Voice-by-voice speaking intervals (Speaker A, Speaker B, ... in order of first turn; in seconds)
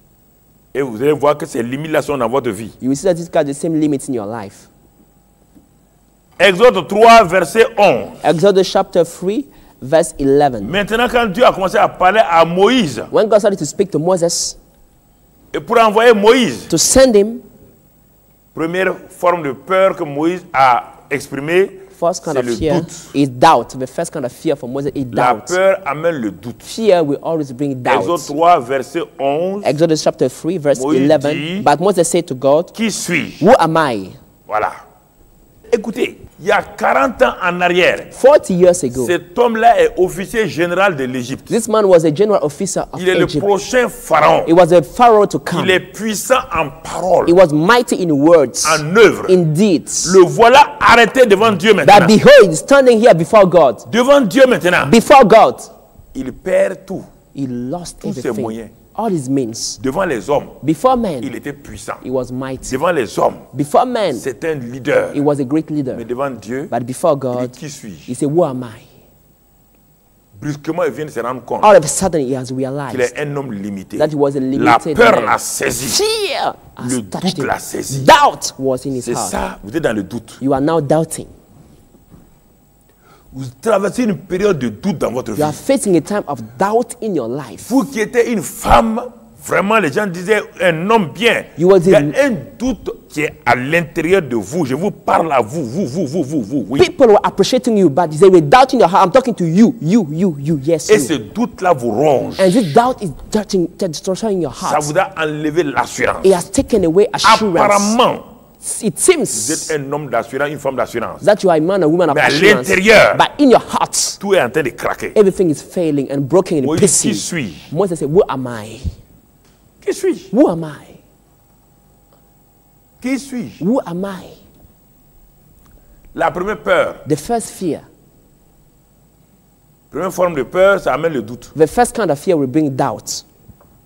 Speaker A: 0.7-2.7, 6.4-8.3, 10.6-13.1, 15.5-16.7, 18.5-23.1, 25.1-26.7, 27.9-29.8, 30.8-31.7, 32.7-33.5, 34.5-34.8, 35.7-38.1, 38.9-41.5, 43.0-44.5, 45.5-47.3, 48.6-49.4, 50.0-52.2, 53.9-55.0, 56.1-57.1, 58.0-58.7, 59.8-60.6, 61.2-62.0, 62.6-63.5, 64.1-65.2, 65.9-66.7, 67.3-68.1, 70.4-71.7, 72.9-76.0, 76.8-78.1, 79.0-80.4, 83.3-85.6, 87.7-96.9, 100.9-102.7, 104.6-106.5, 107.2-108.2, 109.3-111.2, 112.1-113.2, 114.2-115.2, 116.6-117.7, 119.8-120.3, 123.0-123.6, 126.1-127.0, 129.9-131.5
Speaker B: 2.8-4.7, 8.2-10.8, 13.1-14.6, 16.7-17.4, 21.9-25.6, 26.6-28.3, 29.6-32.7, 33.4-34.2, 38.1-39.1, 41.5-43.5, 44.5-45.8, 47.3-50.2, 51.8-53.8, 54.8-55.7, 57.3-59.8, 60.6-61.3, 62.0-62.8, 63.5-64.2, 65.1-66.0, 66.7-67.5, 68.1-68.9, 71.6-73.1, 74.0-79.4, 80.4-81.3, 85.3-87.8, 91.6-92.2, 96.8-101.1, 102.4-104.9, 106.2-108.0, 108.6-109.7, 111.2-114.2, 115.1-118.9, 120.3-121.0, 123.6-124.4, 127.0-127.8, 131.5-133.2